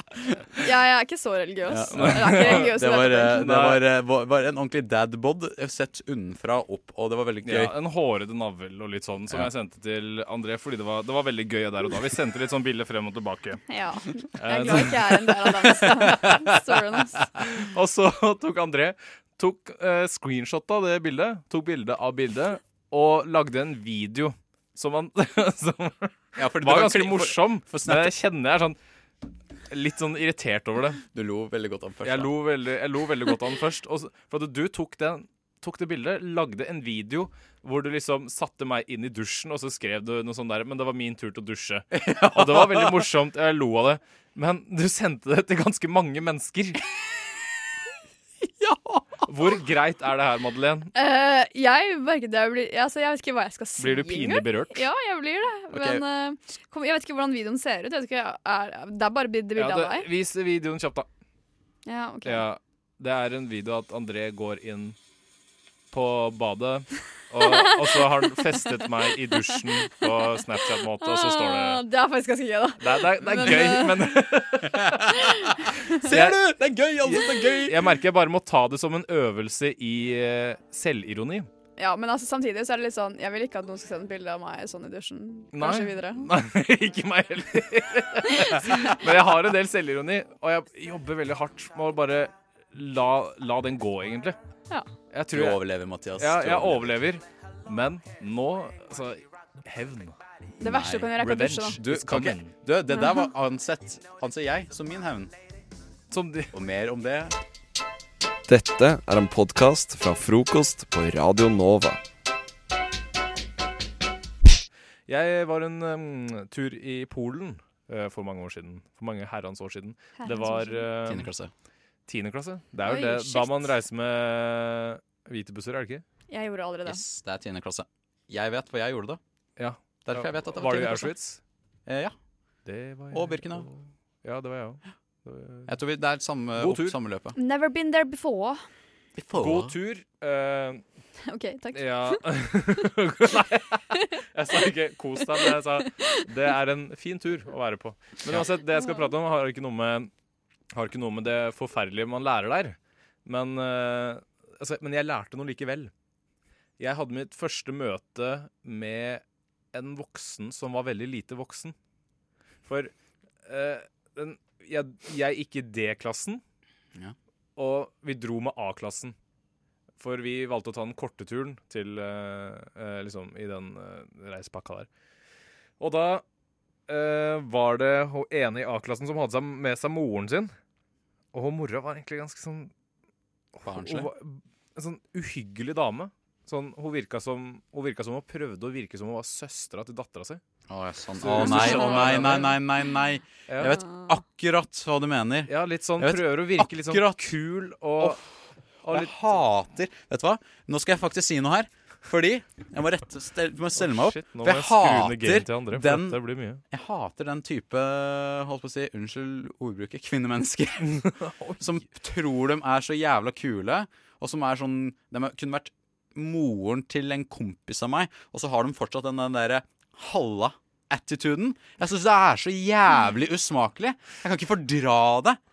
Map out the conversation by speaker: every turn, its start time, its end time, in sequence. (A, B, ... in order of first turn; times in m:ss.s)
0:00.6-0:03.4 A
0:01.7-0:07.7 B
0:01.9-0:03.8 C
0:07.4-0:13.6 C
0:13.7-0:17.3 A
0:14.4-0:16.4 C
0:17.4-0:28.8 C
0:26.4-0:28.1 B
0:29.7-0:31.0 C
0:31.1-0:32.3 B
0:32.0-0:46.8 C
0:41.9-0:43.0 B
0:48.6-0:49.0 B
0:49.3-0:50.9 C
0:51.0-1:00.1 A
0:53.8-0:54.9 C
0:55.7-0:56.0 B
0:59.6-1:01.1 C
1:01.9-1:02.5 A
1:02.2-1:05.0 C
1:05.9-1:11.8 C
1:07.4-1:08.0 A
1:11.0-1:14.1 A
1:12.8-1:15.1 C
1:14.8-1:15.1 B
1:16.0-1:17.9 B
1:16.0-1:21.5 C
1:21.8-1:26.3 A
1:25.5-1:34.4 C
1:35.1-1:35.6 C
1:35.3-1:37.0 B
1:36.2-1:40.2 C
1:40.6-1:41.8 A
1:40.6-1:41.2 B
1:41.0-1:42.6 C
1:41.8-1:45.3 B
1:46.1-1:46.5 C
1:46.5-1:47.4 B
1:48.5-1:52.0 D
1:55.1-2:01.3 C
2:00.2-2:00.8 A
2:01.0-2:01.5 B
2:02.1-2:06.0 C
2:02.8-2:03.7 A
2:06.3-2:07.0 A
2:06.8-2:09.2 B
2:09.6-2:11.4 C
2:10.1-2:11.1 B
2:11.9-2:12.2 B
2:12.7-2:15.7 C
2:13.1-2:13.7 B
2:15.7-2:17.4 B
2:16.6-2:17.0 C
2:17.4-2:18.6 A
2:19.2-2:19.8 B
2:19.3-2:20.8 C
2:21.2-2:22.2 A
2:21.7-2:30.1 C
2:25.4-2:26.1 A
2:28.8-2:29.1 A
2:30.7-2:35.9 C
2:36.8-2:39.2 C
2:39.7-2:41.8 C
2:42.7-2:42.9 C
2:43.4-2:46.4 C
2:47.6-2:49.2 C
2:50.0-2:54.9 C
2:55.8-2:56.2 C
2:56.9-3:00.5 C
3:01.3-3:02.7 C
3:03.6-3:10.4 C
3:03.6-3:04.1 B
3:10.7-3:17.2 B
3:11.2-3:12.6 C
3:11.4-3:12.3 A
3:13.5-3:13.8 C
3:15.5-3:18.2 C
3:18.8-3:19.4 C
3:18.9-3:26.2 B
3:23.8-3:26.6 C
3:26.7-3:31.1 B
3:30.9-3:31.8 C
3:31.6-3:45.4 B